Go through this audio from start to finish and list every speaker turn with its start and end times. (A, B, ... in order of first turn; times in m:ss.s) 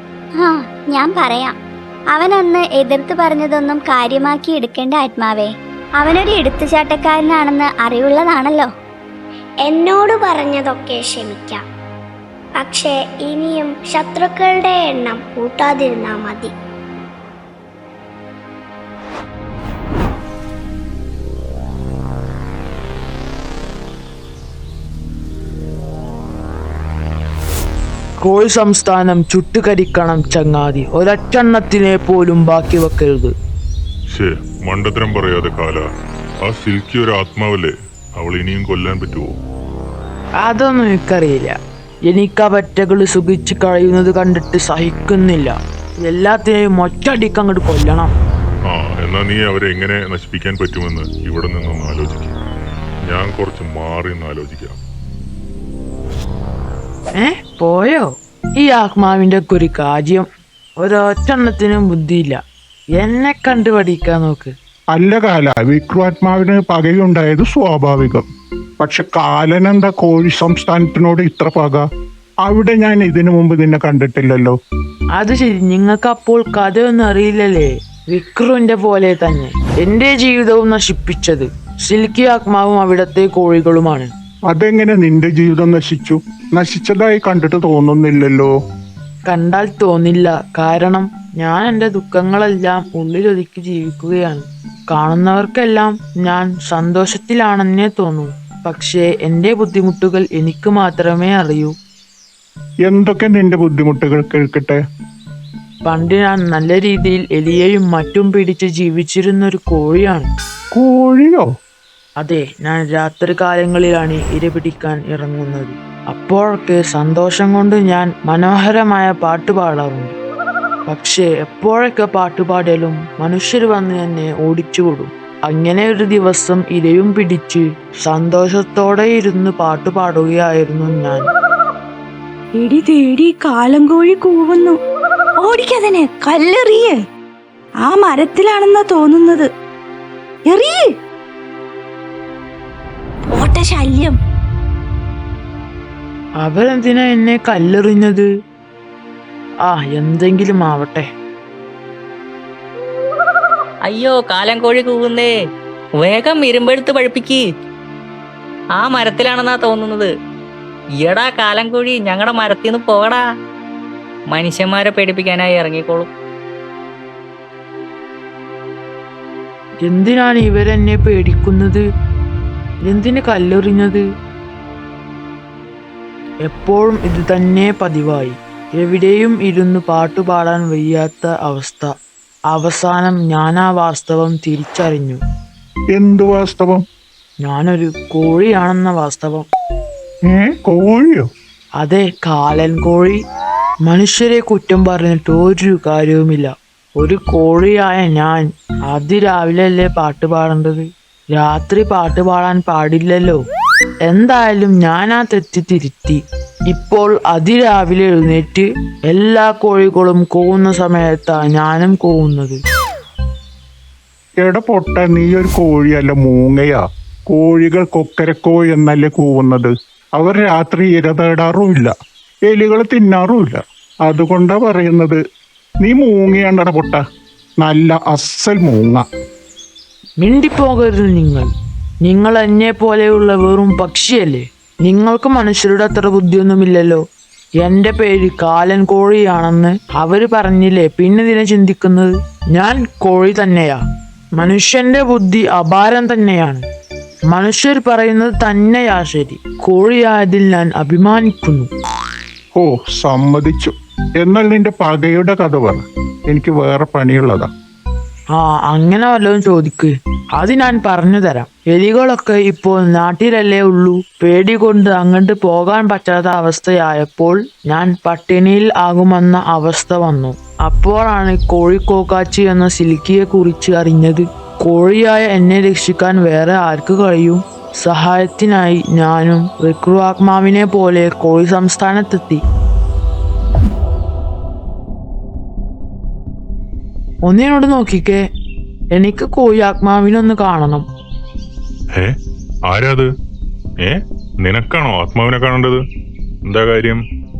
0:00.4-0:01.6 A
0:02.1-0:08.7 A
0:09.6-0:11.6 B
0:12.6-0:16.5 B
0:28.2-0:33.3 C
0:34.1-0:35.8 D
0:36.4-0:39.3 D
0:40.4-0:41.6 C
0:42.1-0:48.1 C
0:48.7-0:52.3 D
0:53.1-0:54.8 D
0:57.1-0:58.1 C
0:58.6-1:00.3 C
1:00.8-1:02.4 C
1:03.0-1:04.5 C
1:04.9-1:08.2 E
1:08.8-1:11.8 E
1:12.4-1:14.6 E
1:15.2-1:24.1 C
1:24.5-1:28.5 E
1:29.3-1:41.7 C
1:42.9-1:44.8 E
1:45.8-1:50.3 C
1:50.7-1:51.4 E
1:52.2-2:00.1 C
2:00.9-2:11.3 C
2:12.6-2:14.8 F
2:15.4-2:17.0 F
2:17.8-2:19.5 F
2:20.5-2:20.9 F
2:23.3-2:24.2 F
2:26.4-2:28.3 C
2:29.7-2:31.1 C
2:33.9-2:35.3 G
2:36.0-2:37.5 G
2:38.8-2:40.1 G
2:41.0-2:43.2 G
2:44.3-2:46.1 G
2:49.8-2:51.8 C
2:52.9-2:54.0 C
2:56.5-3:01.9 C
3:02.5-3:05.2 C
3:05.9-3:06.8 E
3:07.4-3:09.5 C
3:10.3-3:11.3 E
3:11.8-3:13.2 C
3:13.8-3:23.4 C
3:24.1-3:26.2 C
3:26.7-3:32.6 C
3:34.4-3:41.9 E
3:42.5-3:45.2 E
3:45.8-3:47.0 E
3:47.6-3:49.0 E
3:50.2-3:51.5 C
3:52.0-3:57.0 C
3:57.6-4:03.8 C
4:04.4-4:06.6 C
4:07.3-4:11.7 C
4:12.6-4:17.5 E
4:18.3-4:42.4 C
4:47.2-4:48.2 C
4:48.9-4:50.8 C
4:52.7-4:53.1 D
4:53.8-4:55.8 D
4:56.5-4:57.0 D